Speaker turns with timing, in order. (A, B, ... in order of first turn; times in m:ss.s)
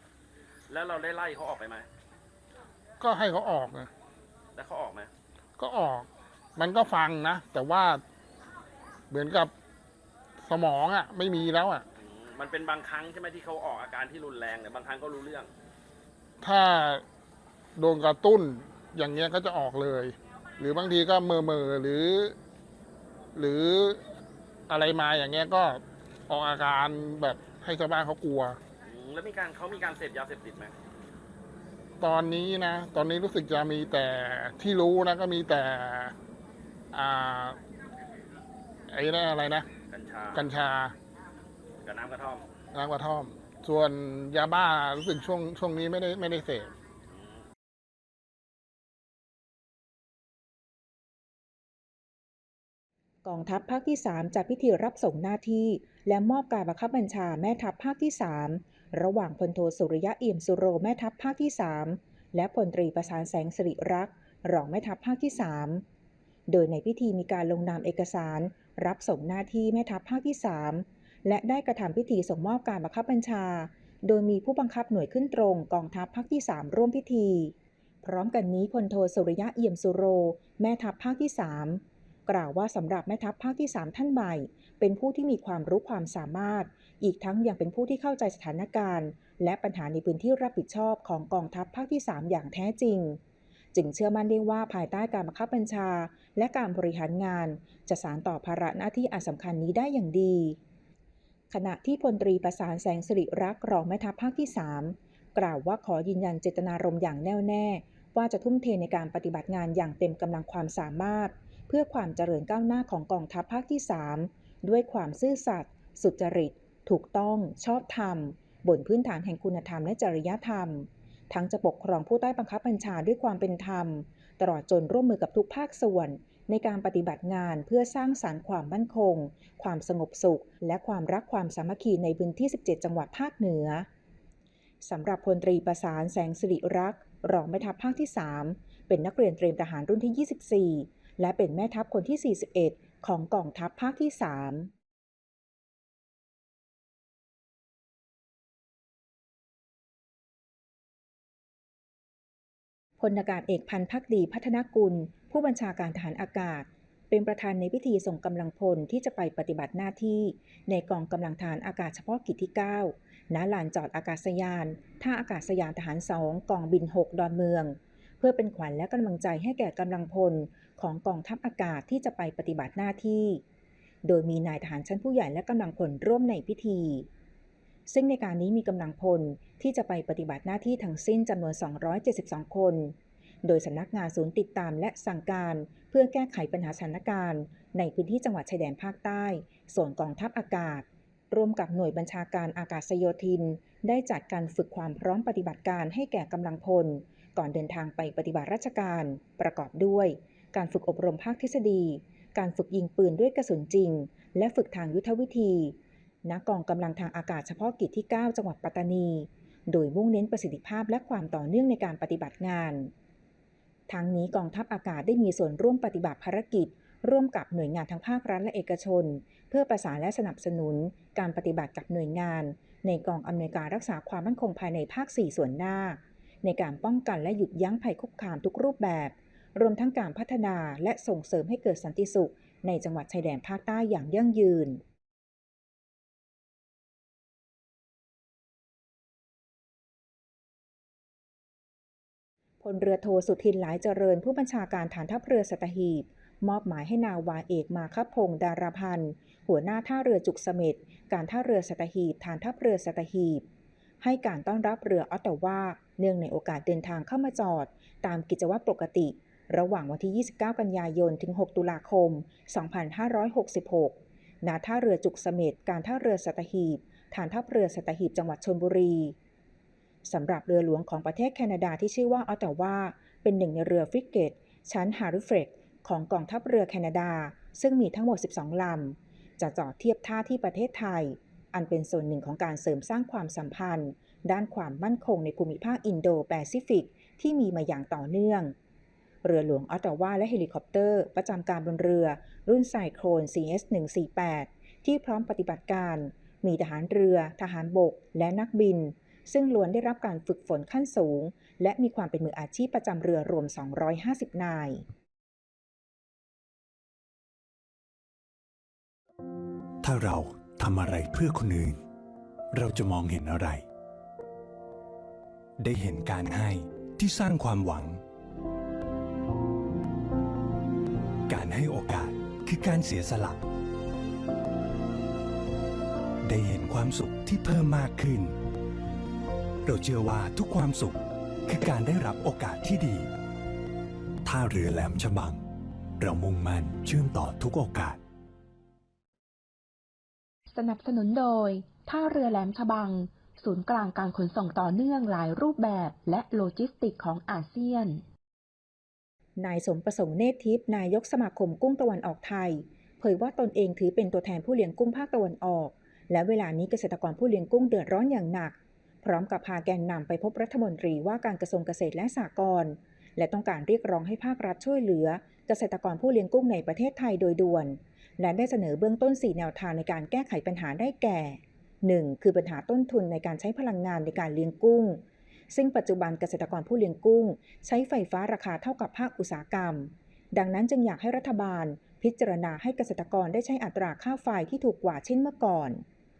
0:00.7-0:01.8 A
0:03.0-0:03.9 B
0:04.5-0:05.1 A
0:05.6-0:08.0 B
0:09.1-0:09.5 B
0:10.4-0:11.8 B
0:12.0-0:15.5 A
0:16.4-0:17.0 B
0:17.8-0:22.3 B
0:23.4-0:24.0 B
0:24.7-0:28.6 B
0:28.8-0:30.7 A
0:32.0-0:36.1 B
0:36.9-0:37.6 B
0:38.9-0:39.6 B
0:39.9-0:40.5 A
0:40.3-0:40.9 B
0:41.8-0:42.5 A
0:42.7-0:46.7 B
0:47.1-0:47.4 A
0:53.2-1:05.8 C
1:06.5-1:33.2 C
1:33.7-1:40.6 C
1:41.5-2:13.9 C
2:14.8-2:24.7 C
2:33.0-2:53.4 C
2:54.0-2:57.1 C
2:57.9-3:32.9 C
3:33.9-3:54.8 C
4:02.6-4:13.4 C
4:14.0-4:29.2 C
4:30.0-4:48.5 C
4:49.2-5:04.8 C
5:09.8-5:11.8 D
5:12.5-5:13.6 D
5:15.6-5:18.0 D
5:21.3-5:23.4 D
5:26.2-5:28.4 D
5:29.6-5:33.1 D
5:34.2-5:35.4 D
5:36.0-5:38.0 D
5:40.5-5:48.0 E
5:49.4-6:25.8 C